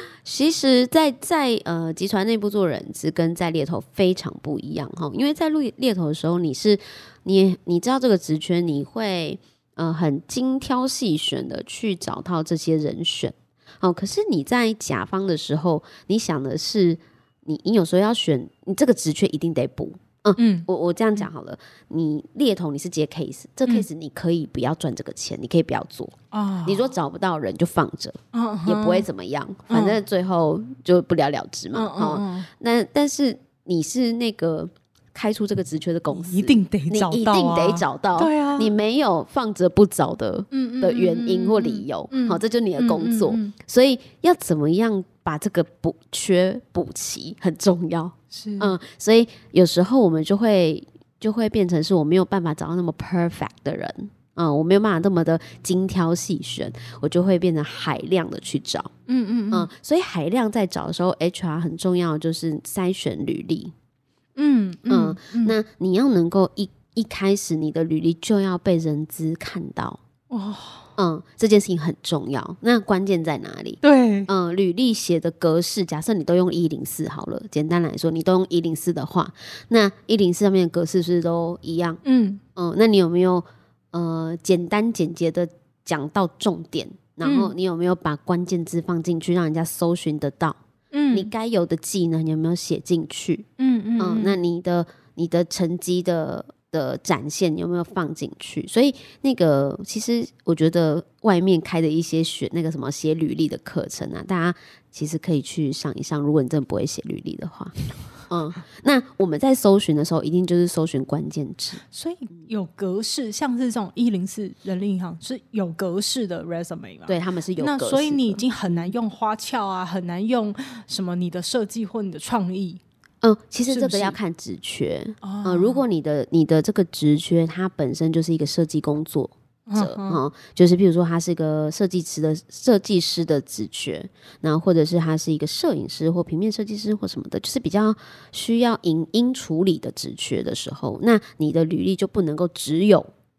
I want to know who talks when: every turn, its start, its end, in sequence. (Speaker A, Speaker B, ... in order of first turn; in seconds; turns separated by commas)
Speaker A: 0.2-58.9, Speaker B: 20.4-20.7, Speaker B: 26.3-26.9, Speaker B: 28.3-29.1, Speaker B: 29.7-30.0, Speaker B: 31.7-32.5, Speaker B: 36.1-38.7, Speaker B: 40.5-43.5, Speaker B: 48.3-48.7, Speaker B: 59.1-59.7, Speaker A: 59.5-63.7, Speaker B: 64.3-65.5, Speaker A: 64.9-70.0, Speaker B: 70.3-70.9, Speaker A: 71.0-82.0, Speaker B: 73.8-74.3, Speaker B: 82.0-82.4, Speaker A: 82.5-90.6, Speaker B: 87.2-87.5, Speaker B: 90.9-91.3, Speaker A: 91.1-93.5, Speaker B: 93.6-94.4, Speaker A: 94.0-111.8, Speaker B: 111.8-122.8, Speaker A: 117.1-118.9, Speaker A: 123.2-143.1, Speaker B: 123.7-124.2, Speaker B: 125.2-125.8, Speaker B: 129.7-130.2